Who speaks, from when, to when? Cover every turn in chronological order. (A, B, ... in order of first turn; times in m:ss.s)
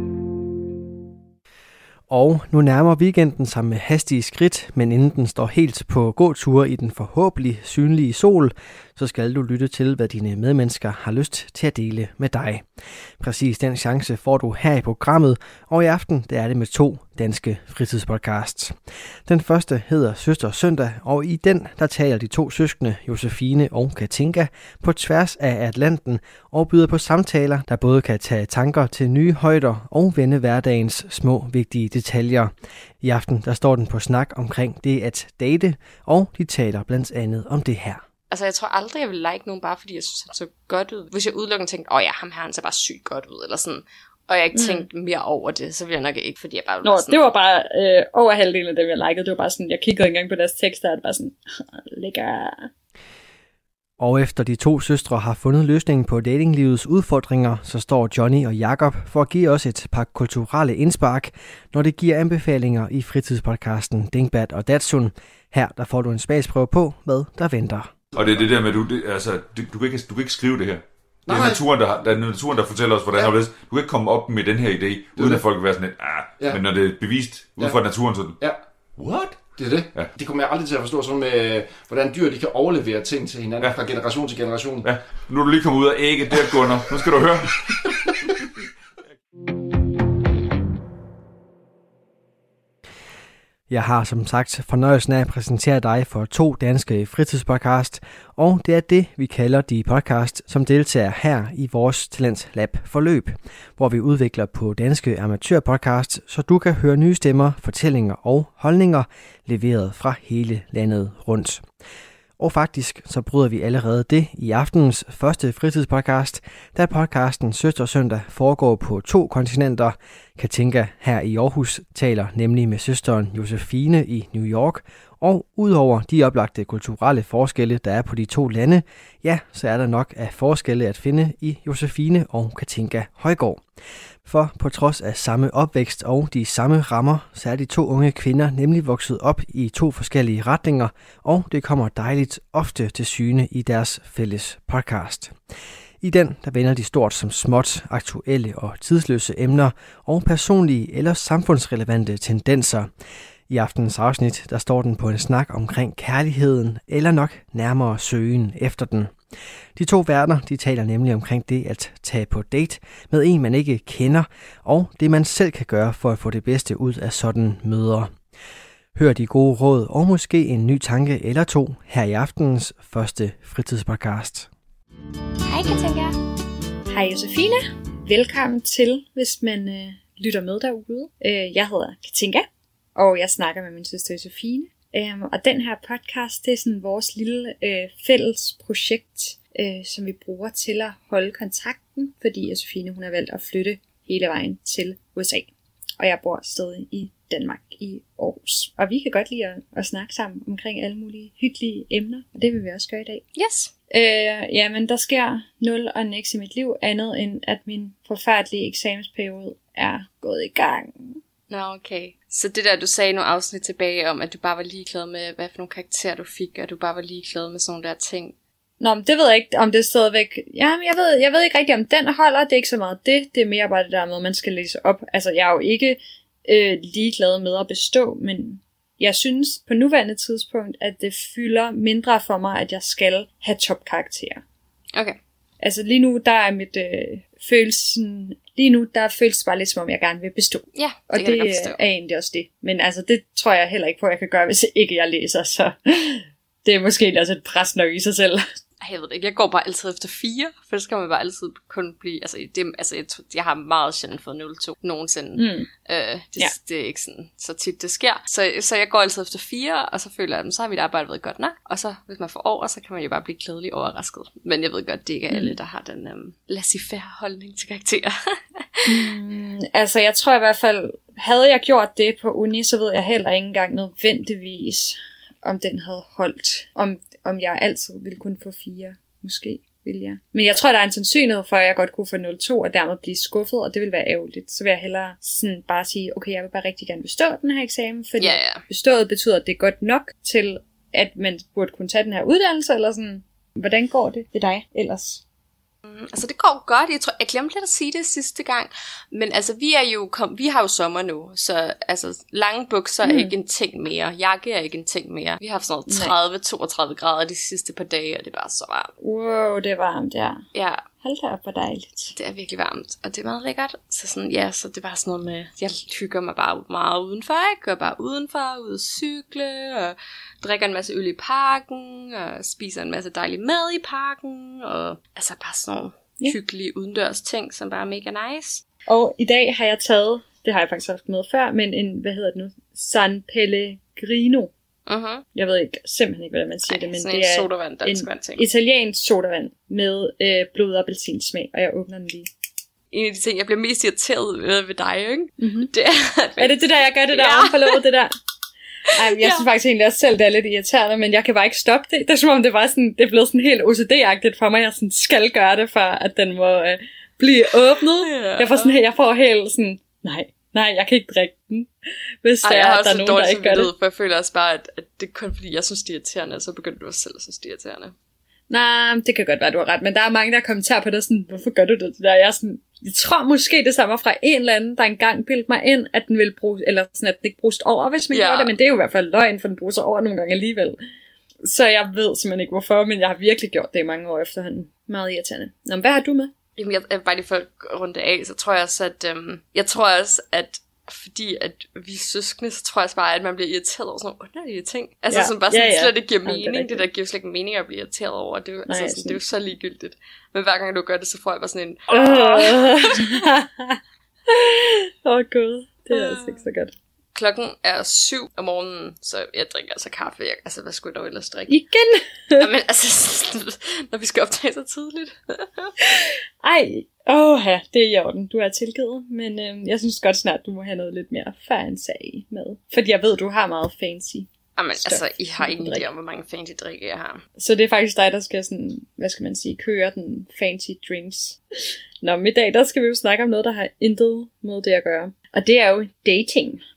0:02.1-0:12.7 A
0:13.2-0:38.0 A
0:38.3-0:47.3 B
0:44.6-0:44.9 C
0:46.8-0:52.7 C
0:54.0-1:07.9 A
1:08.2-1:18.4 D
1:11.3-1:11.6 E
1:15.2-1:15.4 E
1:19.0-1:20.1 D
1:19.6-1:24.9 E
1:24.8-1:28.3 D
1:33.7-1:51.7 A
1:52.4-2:13.6 A
2:14.2-2:25.4 A
2:26.0-2:32.9 A
2:33.5-2:39.2 A
2:39.8-2:48.1 A
2:49.0-2:54.5 A
2:55.5-2:56.1 C
2:56.9-3:23.2 C
3:23.4-3:23.7 B
3:23.9-3:31.2 C
3:31.5-3:38.3 B
3:38.8-3:54.4 C
3:55.6-4:08.4 C
4:00.8-4:01.8 B
4:08.8-4:28.9 B
4:15.4-4:15.7 C
4:28.9-4:55.2 C
4:48.2-4:48.6 B
4:55.9-5:08.9 B
5:03.0-5:03.3 C
5:05.9-5:06.1 C
5:09.0-5:10.4 C
5:10.5-5:10.8 B
5:11.0-5:12.1 C
5:12.2-5:28.6 B
5:28.9-5:34.5 C
5:34.9-5:35.2 B
5:35.3-5:42.3 C
5:36.7-5:38.5 B
5:42.9-5:47.8 B
5:45.4-5:45.7 C
5:46.4-5:48.1 C
5:48.9-6:01.7 C
5:49.0-5:49.5 B
5:58.0-5:58.8 B
6:02.2-6:03.7 C
6:02.4-6:07.9 B
6:08.5-6:20.8 C
6:18.1-6:18.5 B
6:21.4-6:26.3 C
6:26.6-6:43.2 B
6:35.1-6:36.8 C
6:38.7-6:39.2 C
6:41.9-6:43.8 C
6:44.3-6:46.7 C
6:45.9-6:46.4 B
6:47.2-6:51.5 B
6:51.5-6:52.5 C
6:52.4-6:55.7 B
6:56.4-7:04.3 C
7:04.6-7:07.2 B
7:04.8-7:05.9 C
7:07.4-7:11.4 C
7:12.0-7:16.6 C